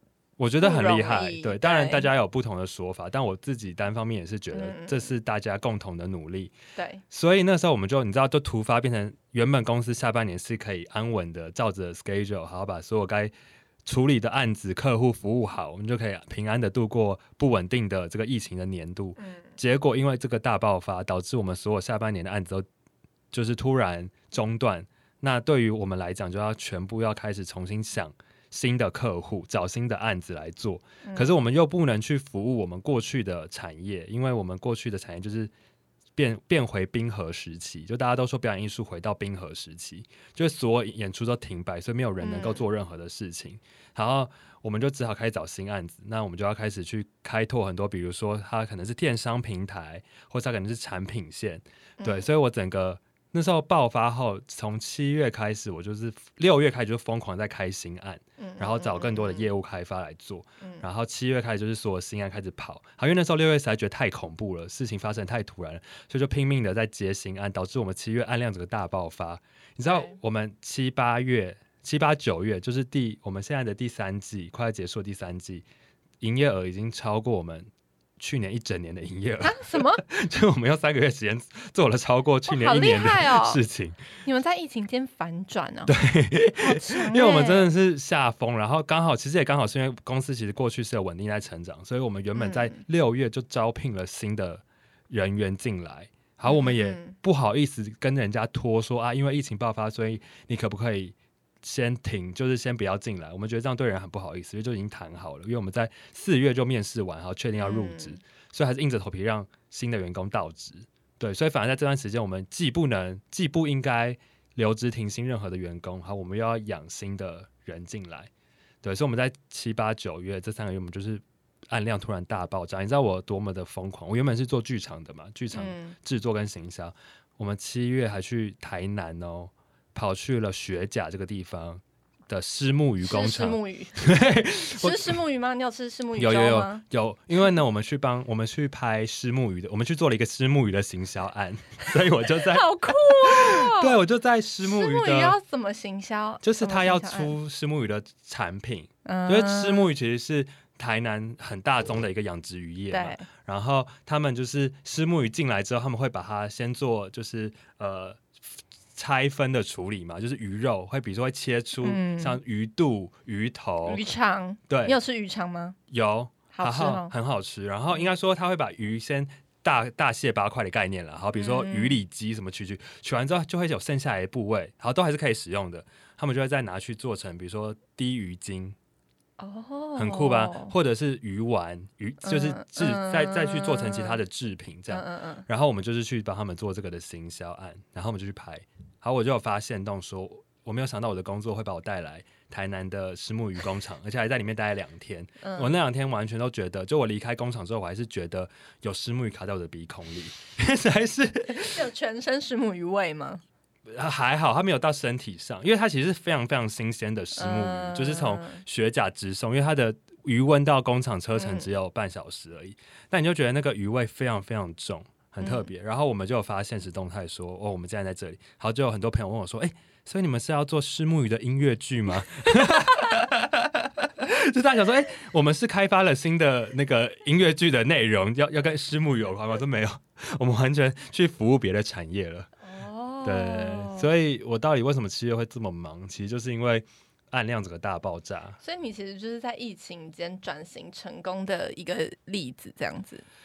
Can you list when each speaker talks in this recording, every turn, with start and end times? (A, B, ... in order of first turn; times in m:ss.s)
0:00.4-0:06.5 A
0:00.6-0:02.1 B
0:04.5-0:05.1 B
0:06.8-0:07.0 B
0:07.1-0:13.3 A
0:13.8-0:22.6 A
0:19.2-0:19.5 B
0:23.3-0:35.5 A
0:31.0-0:31.4 B
0:36.2-1:15.7 A
0:42.2-0:42.6 B
0:52.0-0:52.3 B
0:58.4-0:59.5 B
1:09.9-1:10.2 B
1:16.2-1:24.0 A
1:19.4-1:20.0 B
1:22.5-1:23.6 B
1:24.2-1:26.0 B
1:25.9-1:58.3 A
1:26.6-1:27.7 B
1:32.3-1:32.8 B
1:36.5-1:37.2 B
1:47.6-1:48.2 B
1:58.8-2:15.2 A
2:05.5-2:06.0 B
2:13.0-2:16.8 B
2:16.2-2:25.4 A
2:22.5-2:24.0 B
2:24.6-2:27.4 B
2:26.4-2:38.3 A
2:29.0-2:29.9 B
2:32.9-2:33.2 B
2:39.0-2:44.0 A
2:41.8-2:42.4 B
2:43.9-2:45.8 B
2:44.7-2:45.0 A
2:45.9-2:58.8 A
2:46.5-2:47.1 B
2:51.4-2:52.0 B
2:59.4-3:00.7 B
3:00.0-3:21.8 A
3:02.2-3:04.2 B
3:04.9-3:05.5 B
3:15.4-3:15.7 B
3:21.5-3:23.4 B
3:23.9-3:52.5 A
3:27.4-3:28.6 B
3:31.4-3:31.7 B
3:35.4-3:35.7 B
3:42.7-3:43.1 B
3:52.6-3:54.1 B
3:53.2-3:58.6 A
3:58.6-4:03.2 B